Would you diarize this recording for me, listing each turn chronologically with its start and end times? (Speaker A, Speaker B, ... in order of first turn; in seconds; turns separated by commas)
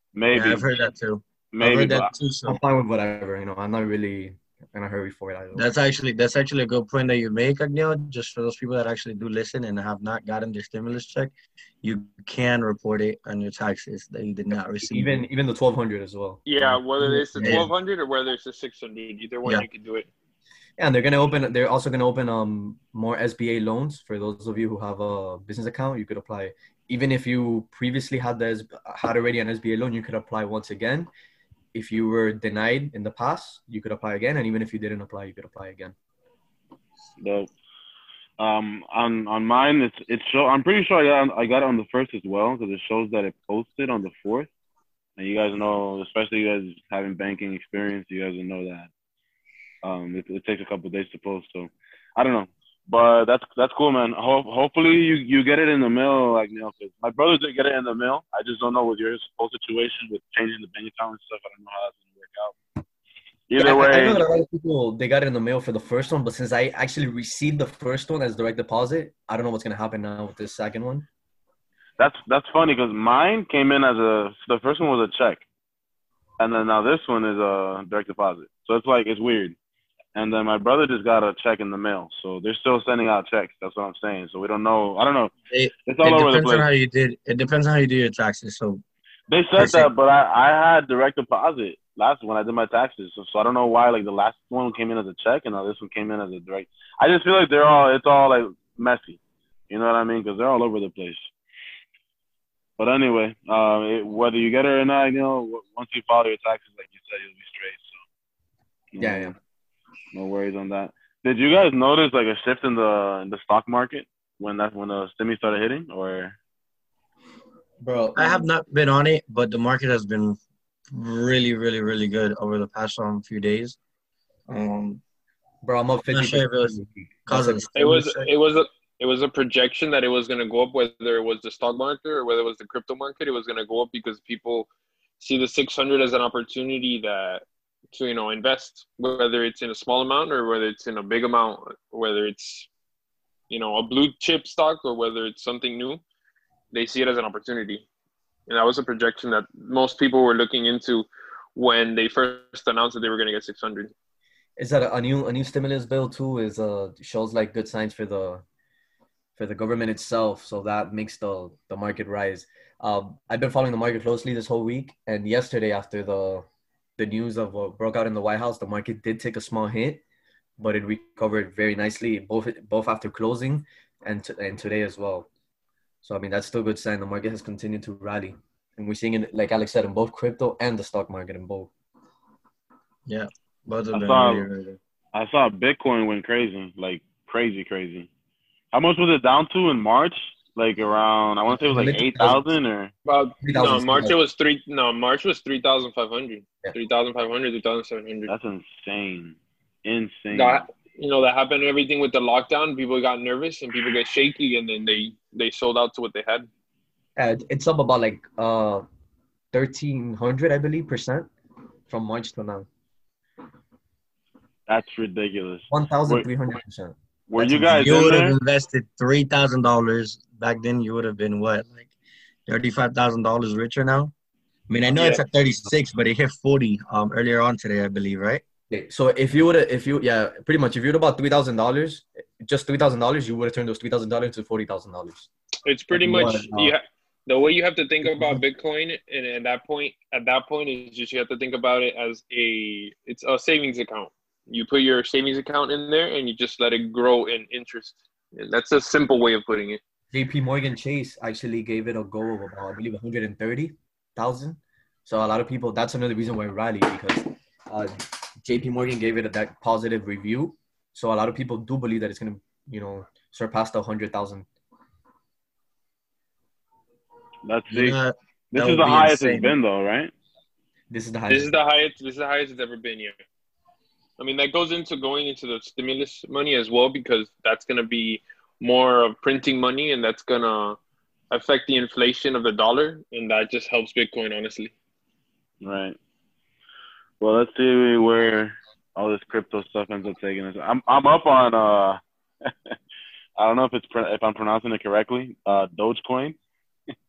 Speaker A: 0.1-0.8, Speaker B: 0.3-2.6, Speaker A: 1.5-2.1, Speaker C: 2.5-5.6, Speaker B: 5.5-11.3, Speaker B: 11.8-15.2, Speaker C: 14.8-17.7, Speaker D: 16.4-20.1, Speaker B: 17.4-17.7, Speaker C: 20.8-31.1, Speaker C: 31.7-35.9, Speaker A: 37.2-37.5, Speaker A: 38.4-44.5, Speaker A: 45.2-48.9, Speaker A: 49.8-62.5, Speaker A: 63.5-64.2, Speaker C: 63.6-71.0, Speaker A: 72.0-75.4, Speaker A: 76.4-79.5, Speaker A: 80.1-85.3, Speaker B: 85.5-88.8, Speaker A: 85.9-86.6, Speaker A: 89.3-99.2, Speaker B: 89.6-89.9, Speaker A: 99.7-101.3, Speaker A: 102.8-108.0, Speaker A: 108.9-109.3, Speaker C: 109.0-109.3, Speaker A: 110.1-116.3, Speaker C: 117.8-118.5, Speaker B: 118.1-120.4, Speaker B: 120.9-123.8, Speaker B: 124.5-125.0, Speaker C: 125.6-127.7, Speaker B: 126.1-126.8, Speaker B: 127.3-128.3, Speaker D: 127.8-134.7, Speaker D: 135.2-142.7, Speaker D: 143.5-146.0, Speaker D: 146.7-147.8, Speaker D: 148.5-153.9, Speaker C: 154.6-158.4, Speaker C: 159.4-166.4, Speaker C: 167.0-170.0, Speaker C: 170.6-175.3, Speaker C: 176.0-181.7, Speaker B: 183.1-184.8, Speaker A: 183.9-184.4, Speaker A: 185.1-188.1, Speaker A: 188.7-192.9, Speaker C: 191.6-192.5, Speaker D: 193.0-198.3, Speaker C: 193.4-194.1, Speaker A: 198.3-200.6, Speaker D: 200.3-206.5, Speaker C: 207.2-208.8, Speaker C: 209.5-211.3, Speaker C: 211.9-212.7, Speaker A: 214.7-216.3, Speaker C: 215.7-216.9, Speaker A: 217.3-218.3, Speaker B: 217.4-221.9, Speaker C: 217.5-217.9, Speaker B: 222.5-224.1, Speaker B: 224.7-228.4, Speaker C: 224.9-225.7, Speaker C: 228.7-235.3, Speaker D: 235.6-249.8, Speaker C: 235.9-236.7, Speaker C: 250.1-264.5, Speaker A: 267.4-268.0, Speaker B: 267.7-269.5, Speaker A: 268.5-270.1, Speaker C: 270.9-271.5, Speaker D: 271.3-273.1, Speaker D: 274.2-280.8, Speaker D: 281.3-284.7, Speaker A: 285.6-286.0, Speaker A: 287.2-292.8, Speaker A: 293.4-296.4